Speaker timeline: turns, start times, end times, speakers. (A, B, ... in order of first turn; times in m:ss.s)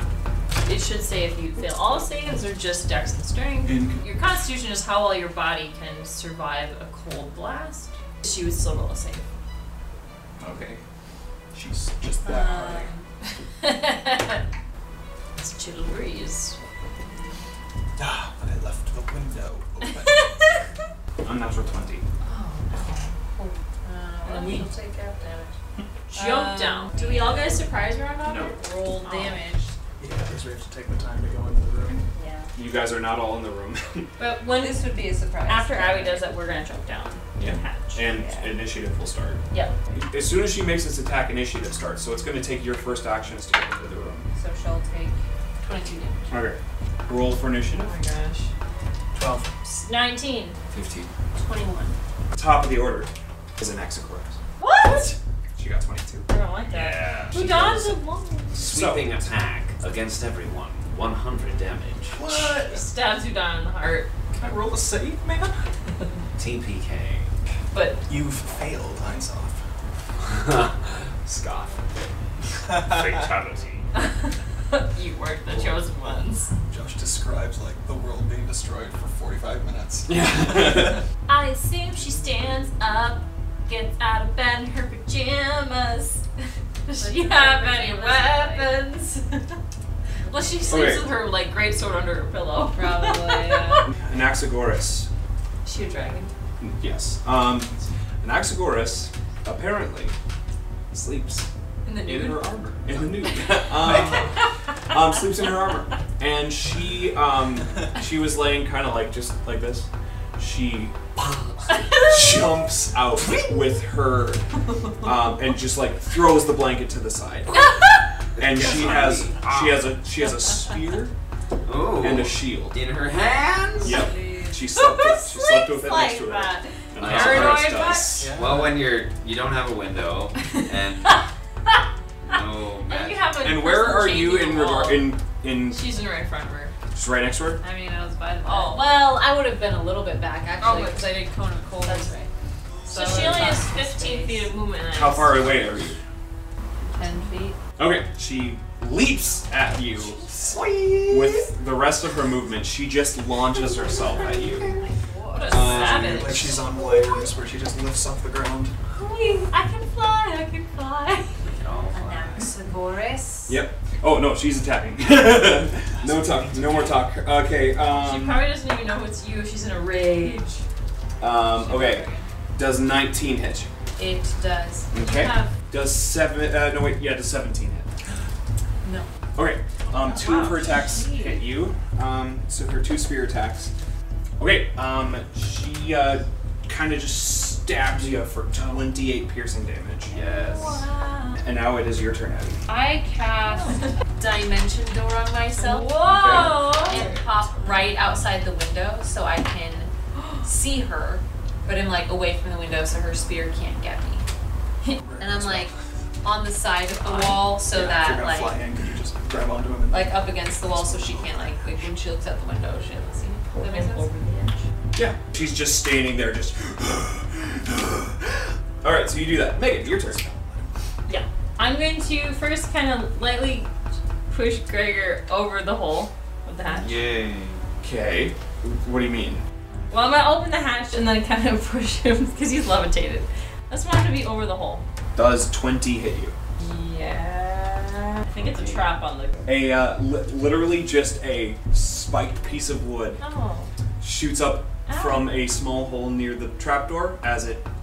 0:00.6-0:09.3 A
0:03.6-0:04.0 B
0:10.4-0:10.7 C
0:10.4-0:10.8 B
0:11.5-0:12.9 C
0:12.2-0:13.1 D
0:13.6-0:14.4 A
0:15.4-0:16.6 A
0:18.0-0:20.6 C
0:19.9-0:20.6 A
0:21.2-0:22.0 B
0:22.2-0:23.2 A
0:23.4-0:25.6 D
0:24.2-0:24.7 A
0:26.1-0:29.5 A
0:26.1-0:27.7 D
0:28.2-0:28.5 B
0:28.5-0:29.8 D
0:30.0-0:32.1 C
0:32.1-0:32.5 A
0:32.6-0:34.1 B
0:34.2-0:34.8 A
0:34.4-0:36.3 D
0:35.5-0:38.1 A
0:37.4-0:39.4 B
0:38.2-0:38.5 D
0:39.9-0:44.3 B
0:44.4-0:46.3 D
0:46.3-0:47.9 B
0:47.7-0:48.5 A
0:49.1-0:49.5 C
0:49.6-0:50.6 A
0:50.7-0:51.1 E
0:51.4-0:52.0 D
0:52.3-0:54.4 B
0:54.6-0:55.1 A
0:55.6-0:56.3 B
0:56.3-0:58.6 A
0:56.7-0:57.5 E
0:57.3-0:58.0 B
0:58.6-0:59.3 B
0:58.6-1:02.2 E
1:02.1-1:02.9 C
1:02.2-1:04.2 A
1:04.4-1:05.6 C
1:06.4-1:07.3 E
1:07.7-1:08.0 A
1:08.1-1:09.6 C
1:10.2-1:11.8 E
1:12.6-1:13.9 E
1:12.7-1:13.2 C
1:13.9-1:16.5 A
1:15.5-1:20.9 C
1:20.1-1:21.0 E
1:21.3-1:26.3 A
1:26.9-1:29.6 A
1:27.0-1:28.8 D
1:30.2-1:31.0 D
1:30.3-1:33.9 A
1:30.7-1:31.1 B
1:32.7-1:33.9 D
1:33.9-1:35.1 B
1:35.6-1:36.3 A
1:36.6-1:40.2 B
1:40.9-1:41.5 B
1:41.8-1:42.4 A
1:42.0-1:54.4 B
1:43.8-1:44.3 C
1:51.7-1:52.4 A
1:55.0-1:57.8 B
1:57.5-1:58.0 A
1:58.4-1:59.9 E
1:58.4-2:01.1 B
2:01.6-2:04.1 E
2:02.0-2:02.8 B
2:03.8-2:04.6 D
2:03.8-2:08.3 B
2:04.7-2:08.3 A
2:07.0-2:07.8 E
2:08.2-2:08.8 C
2:08.3-2:11.2 E
2:10.6-2:11.8 A
2:12.2-2:13.3 E
2:12.3-2:16.7 A
2:13.4-2:15.8 B
2:16.9-2:17.6 B
2:17.6-2:22.3 D
2:18.4-2:18.9 A
2:20.6-2:21.2 A
2:21.8-2:22.1 A
2:22.8-2:24.5 D
2:22.9-2:25.5 A
2:24.9-2:26.0 B
2:26.9-2:27.6 D
2:27.0-2:27.3 A
2:27.8-2:30.3 B
2:31.1-2:34.8 B
2:34.0-2:36.8 A
2:34.1-2:35.6 D
2:35.5-2:36.6 B
2:35.6-2:38.8 C
2:38.9-2:41.4 A
2:41.4-2:42.5 E
2:41.9-2:43.6 D
2:43.5-2:48.5 B
2:45.8-2:47.0 C
2:48.0-2:50.7 A
2:51.2-2:53.7 B
2:54.0-2:55.5 D
2:54.9-2:57.9 B
2:55.0-2:55.5 A
2:58.8-2:59.1 D
2:59.4-3:03.7 B
3:00.0-3:01.4 A
3:04.4-3:10.2 B
3:10.1-3:10.9 E
3:10.2-3:11.4 A
3:11.4-3:12.6 B
3:12.7-3:16.1 D
3:13.4-3:13.9 A
3:15.5-3:17.1 A
3:16.1-3:17.2 B
3:16.7-3:19.9 D
3:20.2-3:20.4 A
3:20.4-3:24.2 D
3:24.9-3:25.8 C
3:25.2-3:28.6 D
3:27.0-3:27.5 A
3:27.7-3:31.9 C
3:29.9-3:34.1 D
3:33.6-3:34.7 A
3:34.9-3:40.2 B
3:39.6-3:40.7 C
3:41.1-3:43.7 A
3:44.3-3:47.0 A
3:46.7-3:47.6 E
3:47.8-3:49.4 B
3:49.9-3:54.8 A
3:55.2-3:56.4 B
3:56.6-3:59.4 A
3:58.3-3:58.9 E
3:59.5-4:03.2 B
4:03.2-4:03.7 A
4:04.0-4:07.6 B
4:04.9-4:05.3 A